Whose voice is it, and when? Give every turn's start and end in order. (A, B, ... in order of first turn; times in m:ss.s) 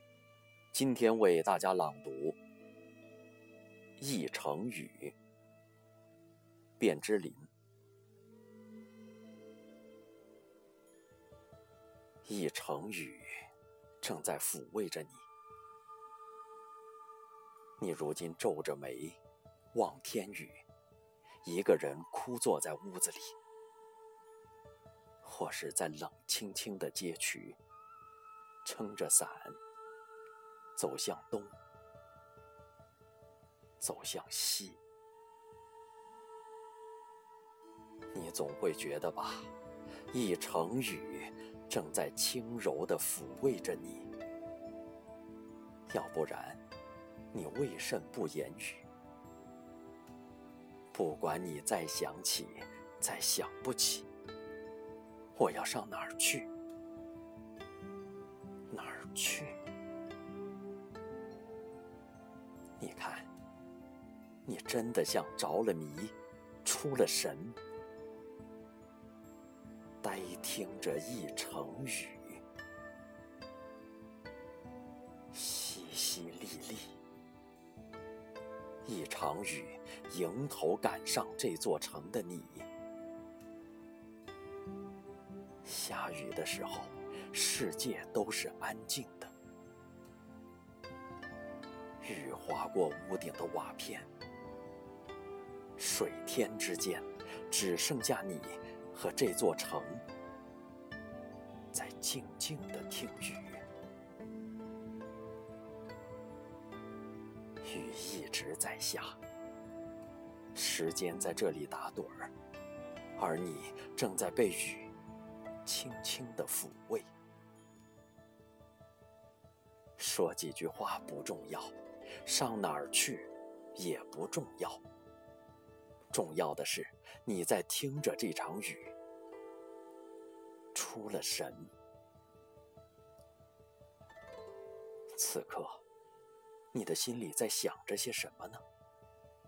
0:00.7-0:02.4 A
0:04.0-0:05.1 A
0:06.8-0:07.5 A
0:12.2-0:13.5 A
0:14.0-0:15.2 A
0:17.8-0:19.2 A
0:19.7-0:20.6 A
0:21.4-0:23.4 A
0:25.2-0:27.6 A
0:28.6-0:29.6 A
0:30.8-0:31.5 A
0:33.8-0:34.8 A
0:38.1-0:39.5 A
0:40.1-0:44.1 A
0:45.9-0:46.6 A
0:47.3-0:48.8 A
0:50.9-0:54.1 A
0:55.3-0:56.5 A
0:58.7-0:59.6 A
1:02.8-1:03.3 A
1:04.4-1:07.6 A
1:10.0-1:12.4 A
1:15.3-1:17.0 A
1:18.8-1:22.7 A
1:25.6-1:29.3 A
1:32.0-1:34.1 A
1:35.8-1:40.0 A
1:41.7-1:43.6 A
1:47.6-1:49.2 A
1:50.5-1:52.3 A
1:53.2-1:54.9 A
1:55.6-1:57.1 A
2:00.0-2:04.8 A
2:06.1-2:08.9 A
2:10.7-2:11.7 A
2:15.1-2:15.8 A
2:16.7-2:18.6 A